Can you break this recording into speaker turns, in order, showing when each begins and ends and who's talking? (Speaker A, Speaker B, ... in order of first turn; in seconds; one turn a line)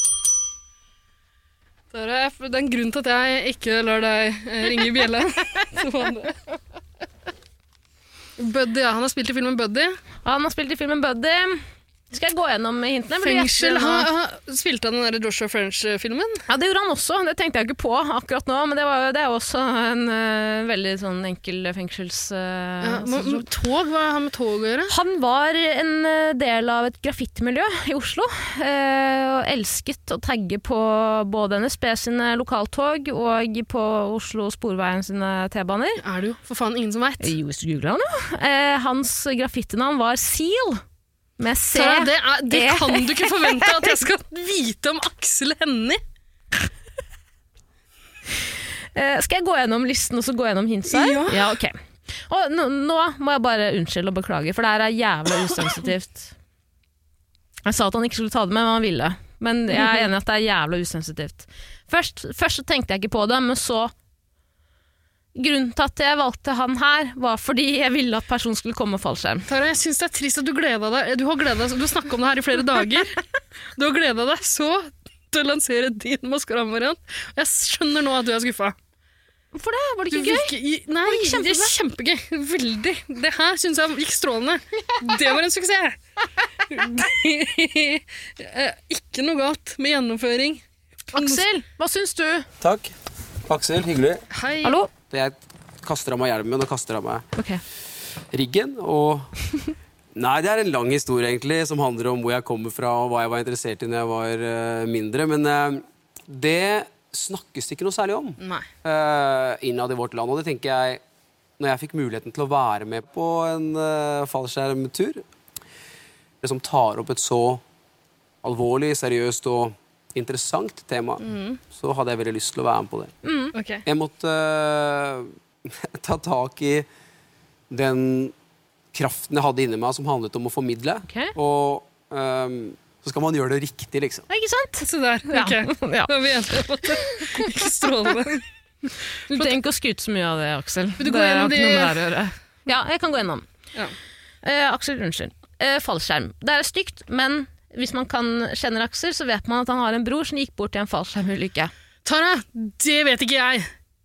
Speaker A: 1.9-6.4
Speaker A: 8.4-10.0
Speaker B: 10.2-14.1
Speaker A: 13.2-16.4
Speaker B: 16.5-23.4
Speaker A: 22.8-24.9
Speaker B: 24.9-36.0
Speaker A: 36.0-37.3
Speaker B: 37.2-40.8
Speaker B: 41.4-43.9
Speaker A: 41.7-46.0
Speaker B: 48.9-56.3
Speaker A: 50.9-51.5
Speaker B: 57.6-63.9
Speaker A: 59.7-60.1
Speaker B: 65.3-69.5
Speaker A: 69.5-73.1
Speaker A: 73.8-78.8
Speaker B: 79.5-81.7
Speaker A: 80.1-86.0
Speaker A: 86.7-91.5
Speaker B: 91.1-92.5
Speaker C: 92.6-92.9
Speaker C: 93.5-94.2
Speaker A: 94.3-94.8
Speaker B: 94.6-94.9
Speaker C: 95.0-97.2
Speaker B: 97.3-97.6
Speaker C: 98.3-99.3
Speaker C: 100.1-111.0
Speaker A: 108.4-108.7
Speaker C: 111.6-115.2
Speaker C: 116.4-117.6
Speaker C: 118.4-123.1
Speaker A: 121.2-121.6
Speaker B: 123.2-123.5
Speaker A: 123.5-123.8
Speaker C: 123.8-126.9
Speaker C: 127.7-128.3
Speaker C: 128.9-134.2
Speaker B: 131.1-131.3
Speaker B: 134.3-137.6
Speaker A: 134.8-138.4
Speaker B: 139.3-143.4
Speaker A: 139.3-139.6
Speaker A: 141.0-142.1
Speaker B: 144.4-151.7
Speaker A: 152.0-153.7